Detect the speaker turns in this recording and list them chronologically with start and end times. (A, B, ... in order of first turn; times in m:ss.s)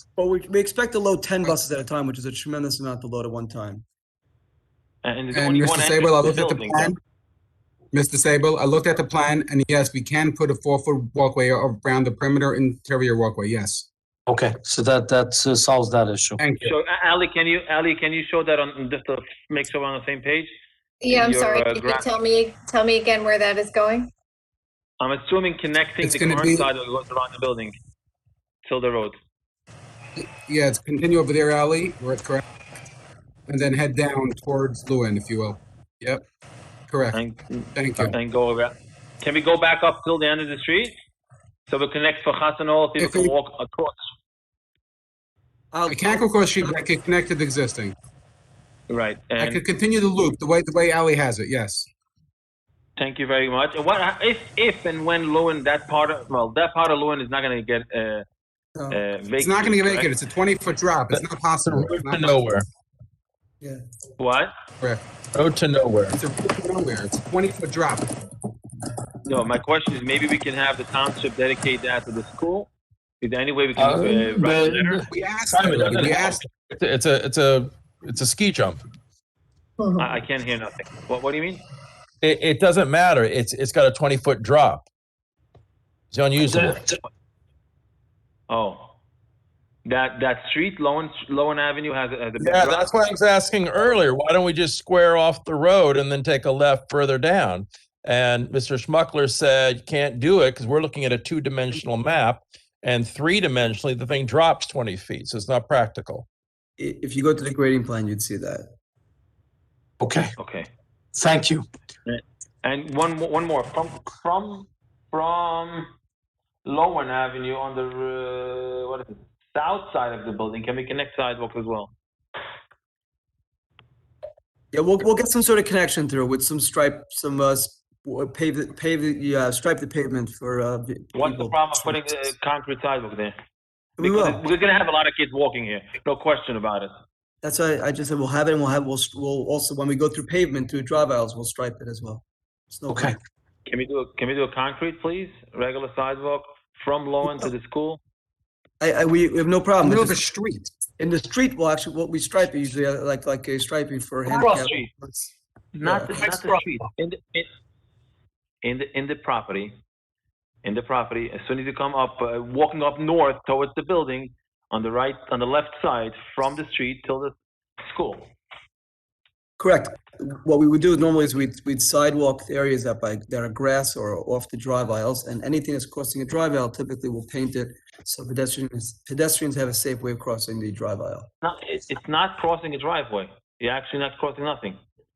0:00.2-0:03.8 A
0:05.0-0:07.0 B
0:05.3-0:07.0 C
0:07.9-0:13.9 C
0:14.3-0:16.4 D
0:16.4-0:16.7 C
0:16.6-0:20.5 B
0:21.0-0:24.1 E
0:21.1-0:22.1 B
0:25.0-0:27.8 B
0:26.0-0:26.7 C
0:28.6-0:29.2 B
0:30.2-0:32.4 C
0:33.5-0:36.2 C
0:36.9-0:37.2 C
0:37.1-0:41.0 B
0:37.8-0:38.2 C
0:41.7-0:44.0 B
0:43.0-0:43.4 C
0:45.7-0:46.8 A
0:45.9-0:48.0 C
0:48.9-0:49.6 B
0:49.4-0:51.9 C
0:53.0-0:58.2 B
0:58.8-0:59.0 A
0:58.9-1:00.1 B
0:59.4-1:02.4 C
1:01.1-1:02.7 F
1:04.2-1:04.5 B
1:05.3-1:06.2 F
1:06.2-1:08.1 C
1:09.2-1:12.7 B
1:13.2-1:15.0 B
1:13.8-1:15.0 D
1:15.1-1:16.5 C
1:15.5-1:18.8 F
1:19.8-1:20.2 E
1:20.0-1:21.6 B
1:22.2-1:24.9 F
1:26.1-1:26.8 F
1:26.5-1:27.0 D
1:28.5-1:28.9 B
1:29.9-1:32.9 B
1:32.4-1:46.3 F
1:46.8-1:48.7 A
1:50.0-1:50.3 D
1:50.4-1:50.7 B
1:51.2-1:51.7 D
1:52.1-1:55.9 B
1:56.6-2:01.9 B
2:04.7-2:12.0 A
2:11.1-2:13.4 B
2:14.0-2:14.4 A
2:14.0-2:16.9 B
2:17.4-2:23.2 A
2:22.9-2:23.2 D
2:23.7-2:28.0 B
2:28.8-2:30.2 A
2:29.8-2:30.7 C
2:31.0-2:36.6 A
2:34.3-2:34.9 B
2:35.8-2:37.5 B
2:38.6-2:39.8 B
2:40.6-2:47.4 B
2:47.9-2:48.3 B
2:49.6-3:01.3 A
3:01.4-3:04.8 B